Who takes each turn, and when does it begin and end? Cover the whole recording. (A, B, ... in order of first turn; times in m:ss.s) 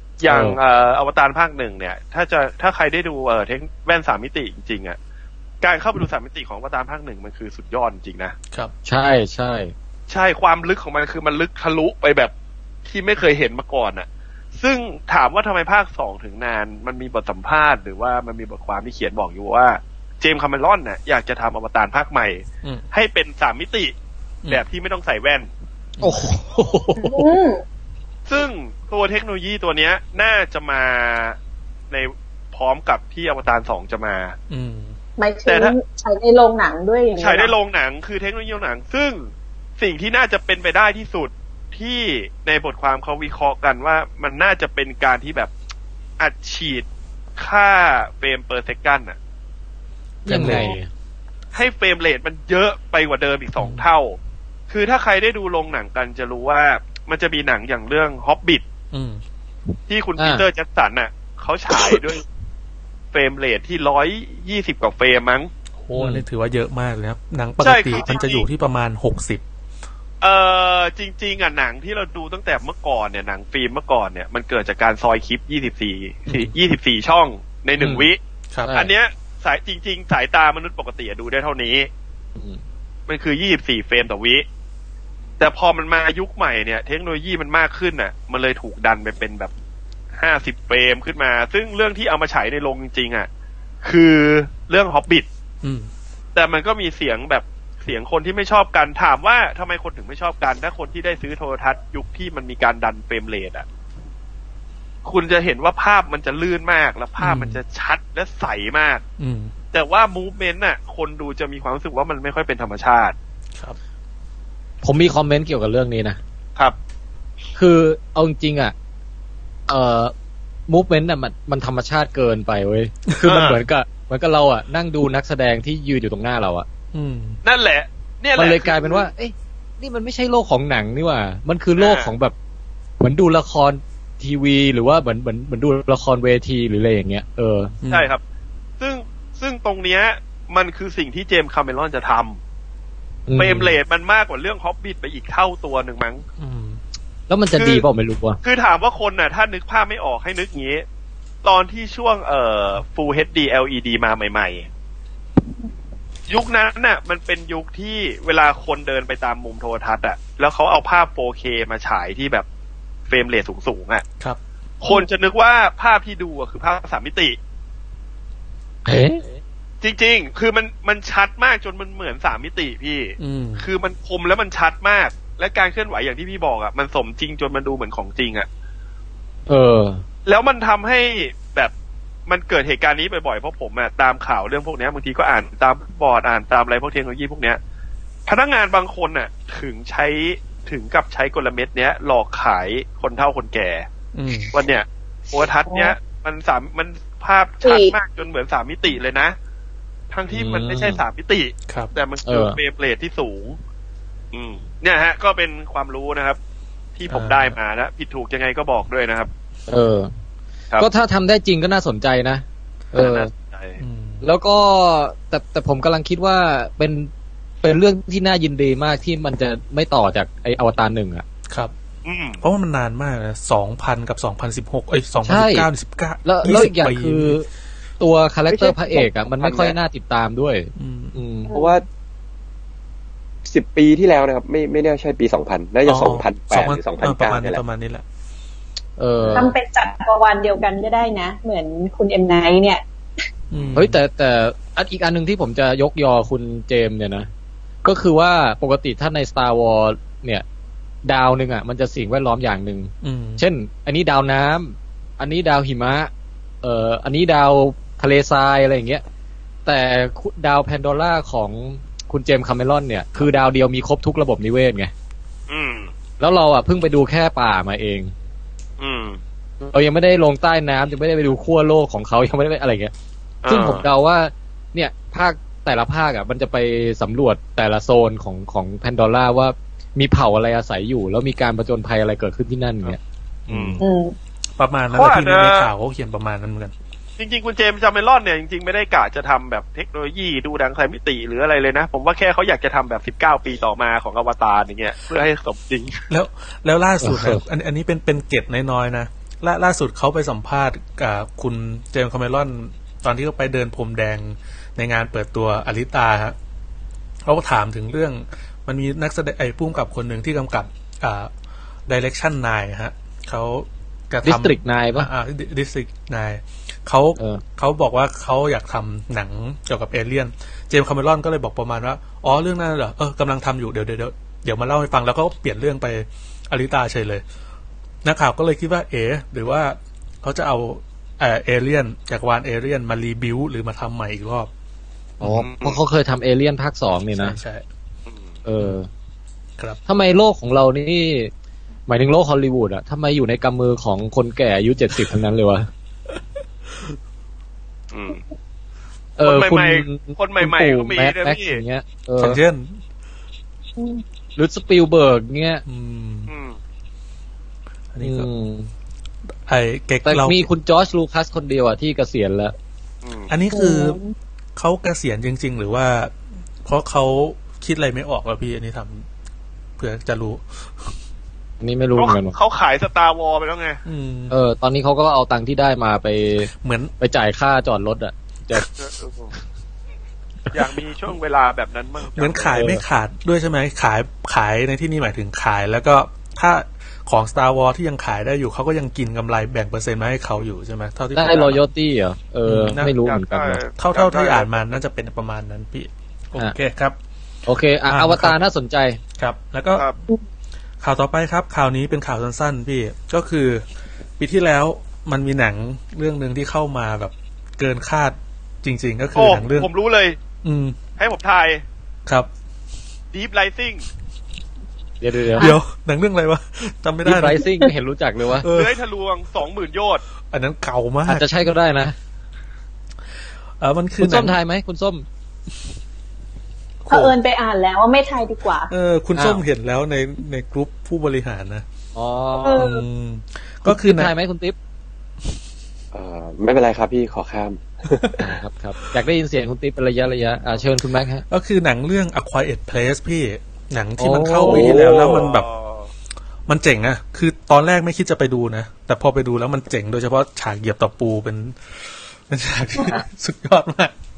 0:00.2-0:05.0 A
0:00.2-0:00.6 B
0:05.6-0:08.3 A
0:08.8-0:09.7 B
0:10.1-0:12.3 A
0:12.8-0:23.9 A
0:24.5-0:25.5 A
0:26.0-0:26.3 C
0:26.0-0:27.4 B
0:27.0-0:27.6 D
0:28.3-0:31.4 A
0:31.9-0:34.4 A
0:34.5-0:35.0 C
0:35.2-0:37.5 D
0:35.5-0:35.7 A
0:37.2-0:45.5 A
0:46.2-0:46.8 A
0:47.4-0:49.2 A
0:50.2-0:50.9 B
0:50.3-0:50.6 C
0:50.3-0:50.7 D
0:51.5-0:54.2 A
0:53.6-0:53.9 C
0:54.7-0:58.6 A
0:58.9-0:59.2 C
0:59.9-1:02.2 A
1:00.2-1:00.4 B
1:03.1-1:05.5 A
1:05.8-1:09.4 C
1:05.9-1:06.2 B
1:07.6-1:08.4 A
1:10.2-1:18.2 A
1:17.8-1:18.1 B
1:18.6-1:18.9 B
1:18.7-1:21.9 A
1:22.4-1:22.6 B
1:23.1-1:24.4 A
1:25.4-1:29.5 A
1:30.2-1:33.3 A
1:33.8-1:35.3 A
1:35.6-1:35.9 C
1:36.3-1:43.6 A
1:45.0-1:49.0 A
1:47.2-1:47.6 C
1:49.2-1:49.5 C
1:49.7-1:53.1 A
1:54.8-1:56.2 B
1:57.6-1:58.7 B
1:59.7-2:00.1 B
2:00.7-2:06.7 B
2:03.2-2:03.6 A
2:06.9-2:07.4 C
2:07.4-2:09.1 A
2:08.4-2:12.3 B
2:11.8-2:12.1 A
2:13.0-2:17.7 B
2:17.8-2:18.1 C
2:17.9-2:18.2 A
2:18.8-2:22.4 A
2:23.3-2:23.8 B
2:23.4-2:26.2 A
2:26.4-2:26.8 C
2:27.3-2:28.4 B
2:27.5-2:27.8 A
2:28.4-2:30.8 A
2:31.4-2:34.7 A
2:36.3-2:42.4 A
2:43.1-2:44.0 A
2:44.8-2:47.4 A
2:48.8-2:49.3 B
2:49.8-2:58.5 A
2:53.2-2:53.7 C
2:59.5-3:00.0 B
3:00.2-3:01.7 A
3:02.3-3:07.6 A
3:08.3-3:13.9 A
3:14.1-3:14.5 C
3:14.5-3:19.3 A
3:15.7-3:15.9 D
3:17.6-3:17.9 D
3:20.1-3:23.6 A
3:20.3-3:21.0 B
3:22.2-3:22.6 B
3:24.3-3:26.4 A
3:27.0-3:29.3 A
3:27.1-3:27.6 C
3:29.7-3:30.1 B
3:30.8-3:33.3 B
3:33.0-3:33.8 A
3:33.8-3:34.2 C
3:34.2-3:37.1 B
3:37.6-3:41.2 B
3:42.0-3:42.4 A
3:42.4-3:47.4 C
3:45.2-3:45.7 B
3:46.2-3:47.5 B
3:48.0-3:51.5 B
3:48.5-3:49.7 E
3:50.8-3:51.2 C
3:51.5-3:51.8 D
3:51.5-3:51.8 E
3:53.4-3:57.6 E
3:55.8-3:58.0 C
3:59.0-3:59.5 B
3:59.3-4:02.8 D
4:03.5-4:04.0 C
4:03.7-4:07.3 B
4:07.8-4:10.4 B
4:11.0-4:16.1 B
4:13.0-4:13.4 C
4:16.6-4:19.0 B
4:19.6-4:24.9 B
4:25.5-4:25.9 A
4:26.2-4:28.1 B
4:28.8-4:29.2 A
4:29.6-4:32.9 B
4:33.4-4:33.8 A
4:33.5-4:43.0 B
4:43.5-4:43.8 A
4:43.5-4:43.8 C
4:43.5-4:43.8 B
4:43.8-4:44.1 D
4:44.6-4:46.7 C
4:44.9-4:45.7 A
4:47.2-4:56.0 A
4:56.1-5:06.3 C
4:57.0-4:57.4 B
5:07.2-5:11.3 C
5:11.9-5:27.2 C
5:14.2-5:15.1 B
5:17.2-5:17.4 B
5:28.0-5:34.5 C
5:35.2-5:37.4 B
5:35.2-5:35.8 A
5:37.2-5:37.6 C
5:38.4-5:38.9 B
5:39.9-5:41.3 B
5:41.9-5:45.7 B
5:47.9-5:48.2 A
5:49.2-5:52.4 B
5:49.2-5:51.6 A
5:52.2-5:52.8 C
5:53.8-5:54.0 D
5:54.4-5:55.6 B
5:55.6-5:56.3 C
5:56.3-5:56.6 A
5:57.9-5:58.3 C
5:58.0-5:58.7 B
5:59.5-6:00.4 C
6:00.0-6:02.5 B
6:03.0-6:03.3 A
6:03.3-6:04.0 C
6:03.5-6:04.1 D
6:04.6-6:09.0 C
6:09.8-6:10.9 C
6:11.6-6:12.4 B
6:12.0-6:13.8 A
6:13.8-6:14.3 C
6:14.3-6:18.6 B
6:16.6-6:16.9 C
6:18.8-6:19.3 A
6:20.5-6:22.6 A
6:22.1-6:31.6 C
6:22.5-6:22.8 B
6:31.1-6:33.6 B
6:32.4-6:32.9 C
6:33.0-6:34.7 A
6:33.7-6:37.0 C
6:37.4-6:39.0 B
6:37.9-6:38.4 C
6:39.2-6:39.9 C
6:40.8-6:43.6 C
6:44.2-6:49.7 C
6:49.2-6:50.2 A
6:50.4-6:50.8 C
6:51.0-6:51.6 A
6:53.1-6:53.9 A
6:55.0-6:55.5 B
6:55.4-6:57.4 C
6:57.0-6:58.5 B
6:58.4-6:58.8 C
6:58.5-7:00.0 A
7:00.3-7:01.3 C
7:01.1-7:01.9 B
7:03.6-7:04.4 C
7:04.0-7:05.0 B
7:06.8-7:07.2 C
7:06.9-7:08.7 D
7:08.7-7:11.6 C
7:09.2-7:09.4 B
7:11.9-7:12.7 B
7:12.4-7:12.8 D
7:12.5-7:14.1 C
7:13.6-7:14.6 B
7:15.9-7:18.2 E
7:18.2-7:21.2 B
7:21.3-7:25.5 C
7:24.0-7:24.8 B
7:24.4-7:25.3 E
7:24.8-7:25.9 A
7:26.5-7:33.9 C